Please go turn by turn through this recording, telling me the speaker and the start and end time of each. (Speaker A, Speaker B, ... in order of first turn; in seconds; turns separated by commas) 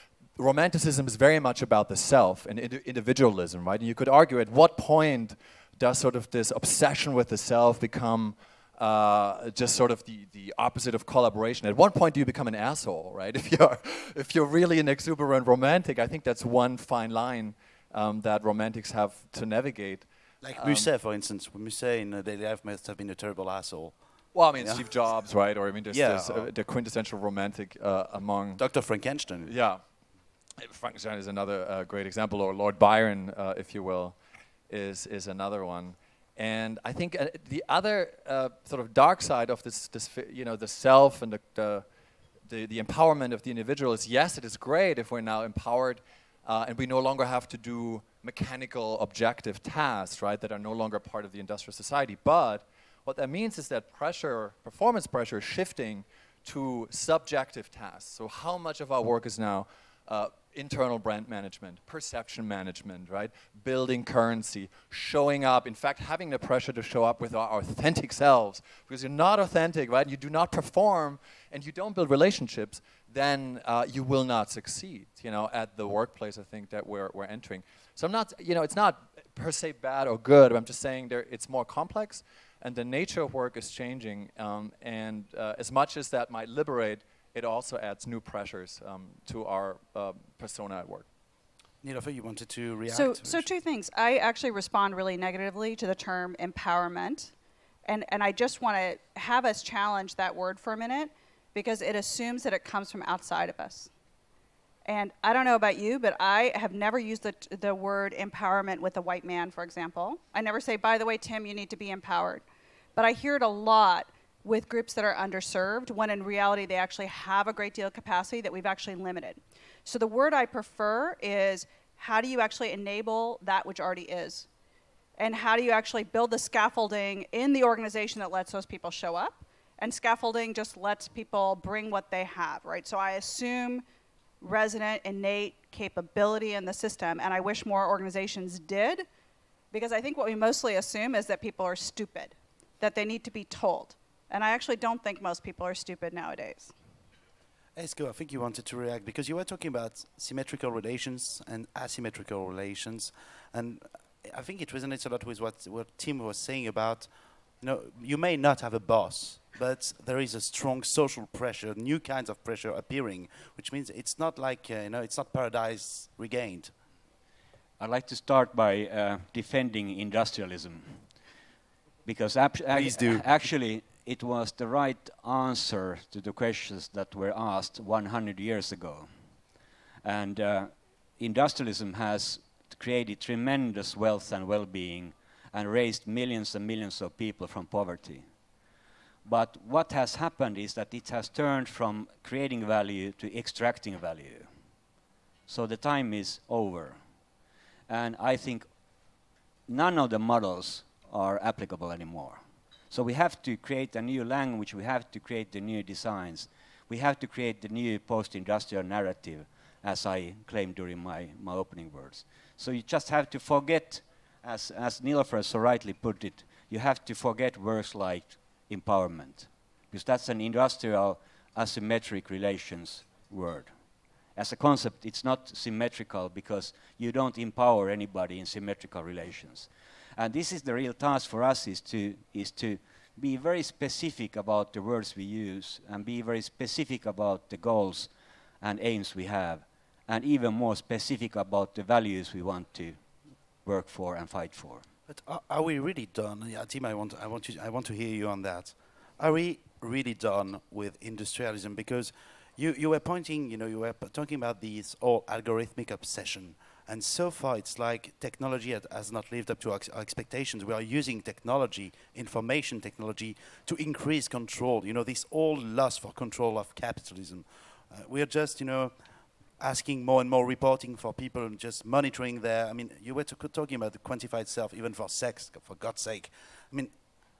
Speaker A: 0.4-20.9, Speaker B: 20.4-24.0, Speaker A: 24.3-28.6, Speaker B: 24.6-24.9, Speaker B: 25.9-26.5, Speaker B: 28.6-29.5, Speaker A: 29.4-29.8, Speaker A: 30.6-34.2, Speaker A: 34.7-41.8, Speaker A: 42.5-91.1, Speaker B: 91.8-93.5, Speaker C: 92.9-97.3, Speaker C: 97.8-103.9, Speaker C: 104.9-112.4, Speaker C: 112.9-124.5, Speaker C: 125.2-133.8, Speaker C: 134.4-139.1, Speaker C: 139.7-146.7, Speaker B: 147.8-157.1, Speaker B: 157.6-166.7, Speaker D: 167.8-171.1, Speaker D: 172.0-179.1, Speaker B: 172.7-173.2, Speaker D: 180.0-188.2, Speaker D: 189.2-194.5, Speaker D: 195.5-197.0, Speaker D: 197.9-198.7, Speaker D: 199.7-223.7, Speaker D: 224.3-238.1, Speaker D: 238.6-243.0, Speaker D: 243.6-244.8, Speaker B: 245.1-268.9, Speaker B: 269.6-276.9